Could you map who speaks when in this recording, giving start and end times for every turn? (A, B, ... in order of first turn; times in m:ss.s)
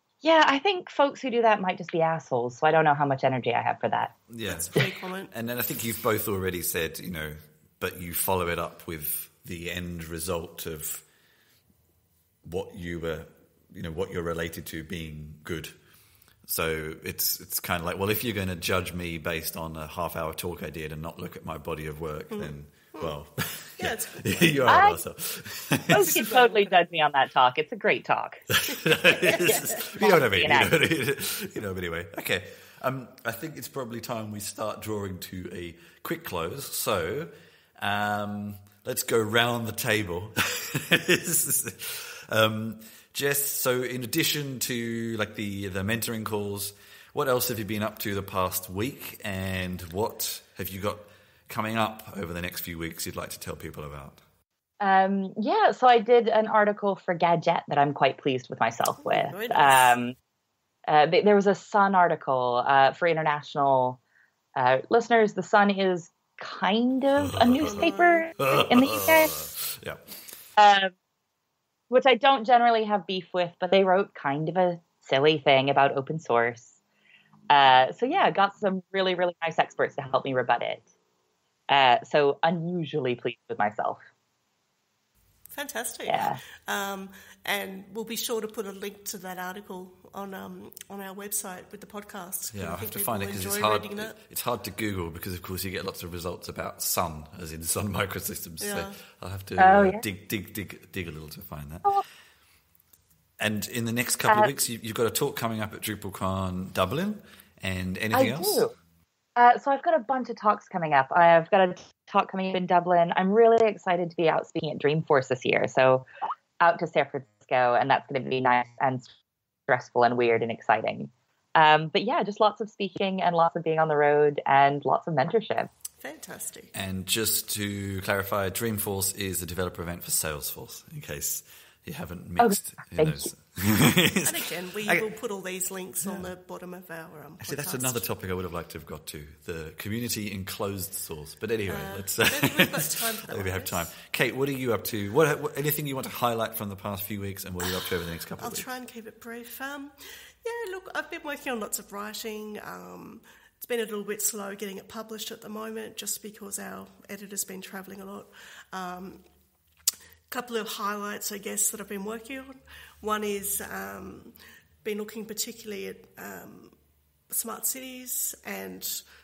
0:00.2-0:04.1 A
0:04.3-0:11.0 B
0:04.5-0:05.3 C
0:12.4-0:15.7 B
0:16.4-0:26.3 B
0:22.3-0:23.1 C
0:23.8-0:24.8 C
0:24.6-0:25.0 A
0:25.9-0:28.4 A
0:25.9-0:26.8 C
0:28.5-0:54.2 B
0:29.2-0:30.7 A
0:54.8-1:00.2 A
0:59.0-1:00.0 C
1:00.9-1:04.0 A
1:04.6-1:09.4 A
1:07.2-1:10.0 B
1:07.6-1:08.3 C
1:10.6-1:10.9 A
1:11.9-1:16.8 A
1:17.5-1:20.8 A
1:21.7-1:24.0 A
1:25.5-1:34.2 C
1:26.1-1:26.4 A
1:32.5-1:42.0 B
1:38.6-1:39.0 C
1:39.6-1:40.0 A
1:43.4-1:48.6 B
1:48.1-1:48.7 A
1:49.4-1:56.1 A
1:56.6-1:59.1 A
1:59.7-2:05.7 A
2:06.0-2:06.7 C
2:06.7-2:14.3 B
2:12.4-2:13.3 A
2:14.2-2:18.1 C
2:17.4-2:28.7 B
2:21.7-2:23.9 C
2:28.4-2:39.2 C
2:40.3-2:46.8 C
2:47.3-2:49.1 C